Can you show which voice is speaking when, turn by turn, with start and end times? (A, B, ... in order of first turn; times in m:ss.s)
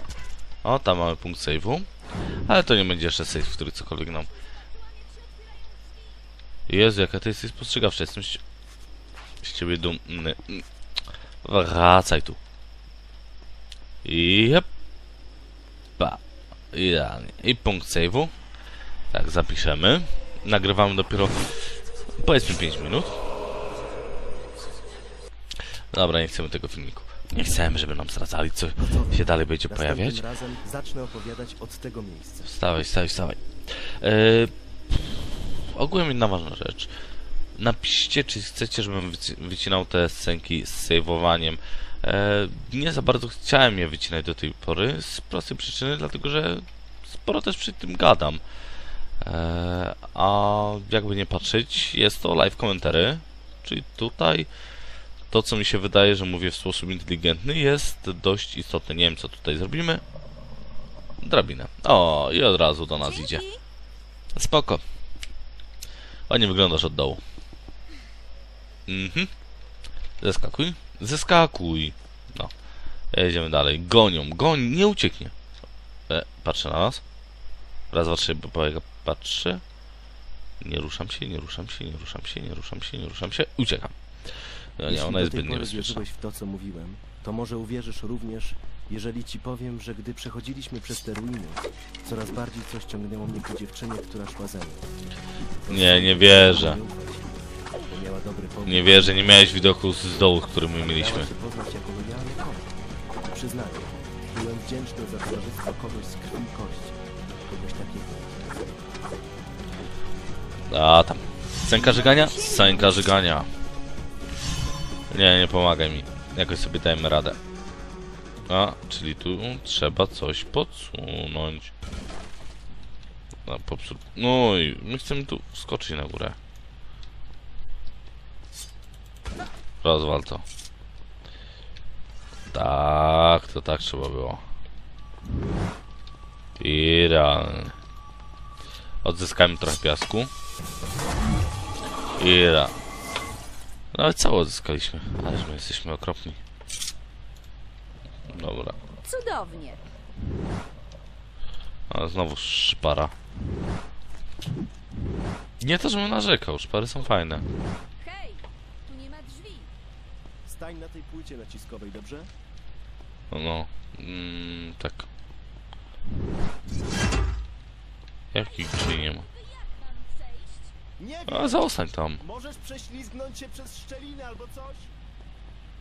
0:00.6-0:01.9 A
0:02.5-0:04.3 A
0:04.3-0:06.3 B
0:06.7-0:08.4 A
0:09.4-0:10.6 A
0:11.4-0:12.4 A
0:14.0-0:14.7 A
0:16.7-0:18.3 A
0:19.1-0:23.2 A
0:25.9-0:30.2 A
0:28.8-0:32.5 C
0:32.4-0:36.9 A
0:37.6-0:48.4 A
0:49.2-0:54.5 A
0:55.3-1:00.0 A
1:01.2-1:03.4 A
1:03.0-1:03.6 B
1:04.3-1:04.8 A
1:06.3-1:07.2 A
1:08.9-1:09.3 A
1:10.2-1:12.5 A
1:13.1-1:15.3 A
1:16.1-1:17.0 A
1:17.9-1:19.6 A
1:20.6-1:24.0 A
1:24.8-1:26.0 A
1:24.9-1:39.3 C
1:35.7-1:36.8 A
1:38.7-1:41.3 A
1:40.8-1:48.8 C
1:50.7-1:53.5 A
1:51.7-1:53.1 B
1:55.1-1:57.4 A
1:58.5-2:01.7 A
2:03.4-2:06.4 A
2:09.8-2:10.4 A
2:12.5-2:14.4 A
2:16.6-2:17.8 A
2:19.0-2:20.3 A
2:22.2-2:22.7 A
2:23.9-2:26.4 A
2:28.3-2:28.8 A
2:29.0-2:29.8 B
2:31.9-2:33.1 A
2:35.6-2:37.5 A
2:38.0-2:39.7 B
2:40.4-2:42.3 C
2:43.3-2:45.1 A
2:48.3-2:49.2 A
2:48.4-2:50.7 B
2:51.0-2:54.9 C
2:51.3-2:52.2 A